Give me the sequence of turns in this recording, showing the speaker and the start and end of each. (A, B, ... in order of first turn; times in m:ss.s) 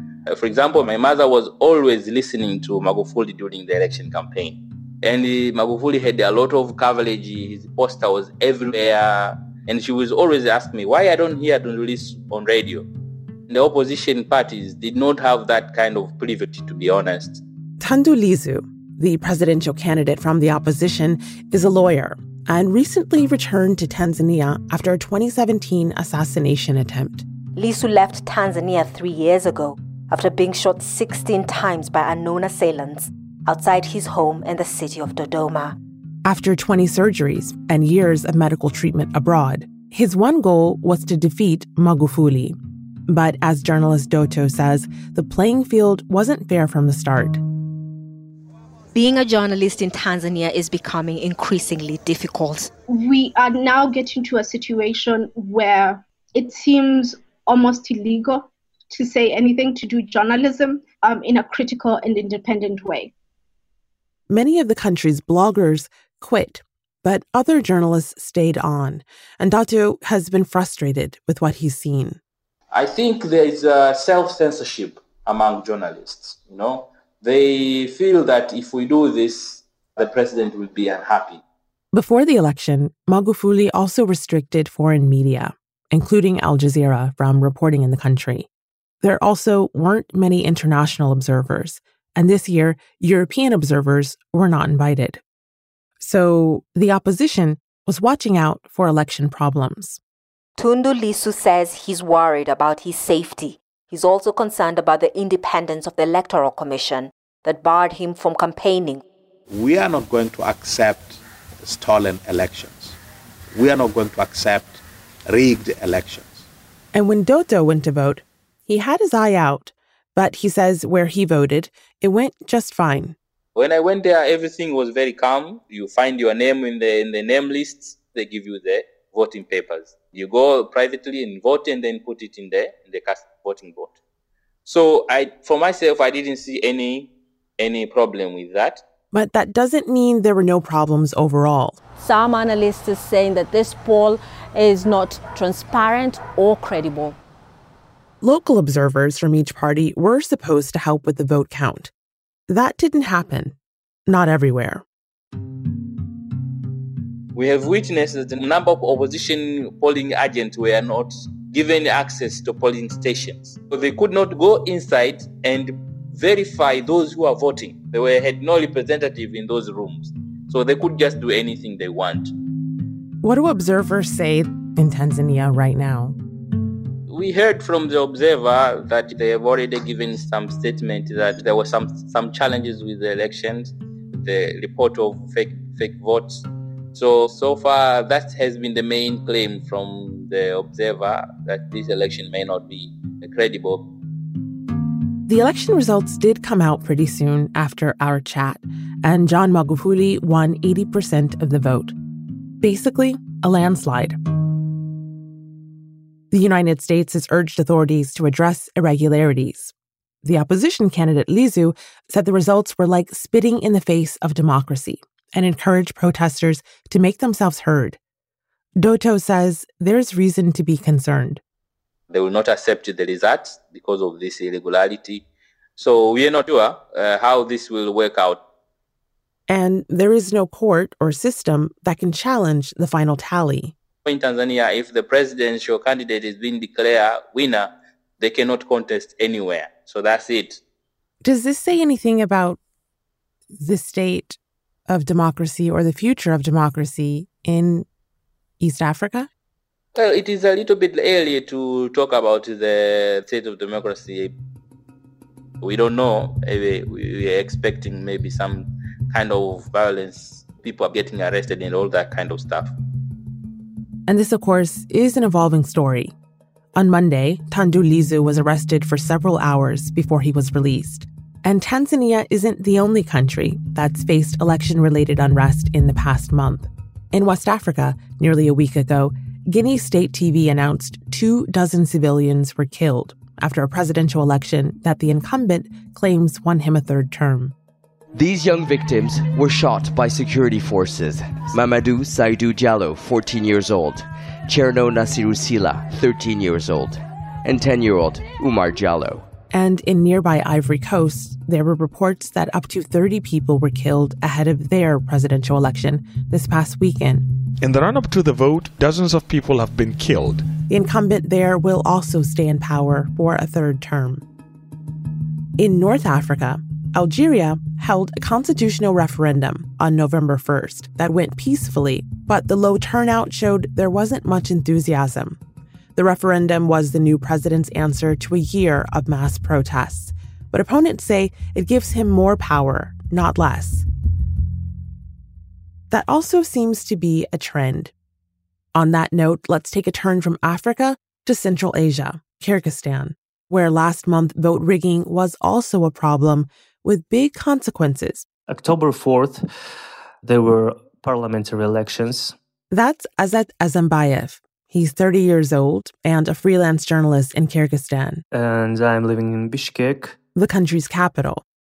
0:00.3-0:12.8 A
0:13.5-0:17.4 A
0:17.8-0:27.2 B
0:27.6-0:35.7 C
0:36.2-0:42.6 B
0:43.1-0:47.4 B
0:48.9-0:52.7 C
0:52.9-1:03.1 D
1:04.3-1:12.2 B
1:12.7-1:21.4 A
1:21.9-1:28.5 B
1:29.0-1:35.2 B
1:36.0-1:40.0 B
1:40.6-1:49.0 C
1:49.5-1:53.0 E
1:53.6-1:56.5 E
1:56.9-2:03.1 B
2:03.5-2:13.9 A
2:14.6-2:18.8 A
2:19.1-2:21.8 B
2:22.0-2:27.2 F
2:28.2-2:31.9 B
2:32.5-2:33.6 B
2:34.1-2:34.8 B
2:37.3-2:52.3 A
2:53.2-2:56.2 B
2:57.1-3:13.8 A
3:15.3-3:21.9 B
3:22.6-3:24.2 B
3:26.3-3:38.0 B
3:38.8-3:41.4 B
3:42.1-3:45.2 A
3:45.8-3:48.4 A
3:49.5-3:53.7 B
3:54.0-4:00.6 A
4:01.2-4:02.6 B
4:03.6-4:07.8 B
4:08.6-4:09.3 B
4:09.9-4:14.3 A
4:15.6-4:22.7 A
4:24.1-4:26.1 B
4:26.8-4:47.5 B
4:48.1-4:59.3 G
4:59.5-5:07.2 B
5:07.6-5:10.5 H
5:10.7-5:14.2 B
5:15.6-5:25.4 B
5:26.0-5:33.8 B
5:35.9-5:37.9 B
5:38.7-5:48.2 B
5:48.5-5:49.4 I
5:50.2-5:52.3 I
5:52.7-5:58.2 B
5:58.3-6:00.2 I
6:00.3-6:01.4 B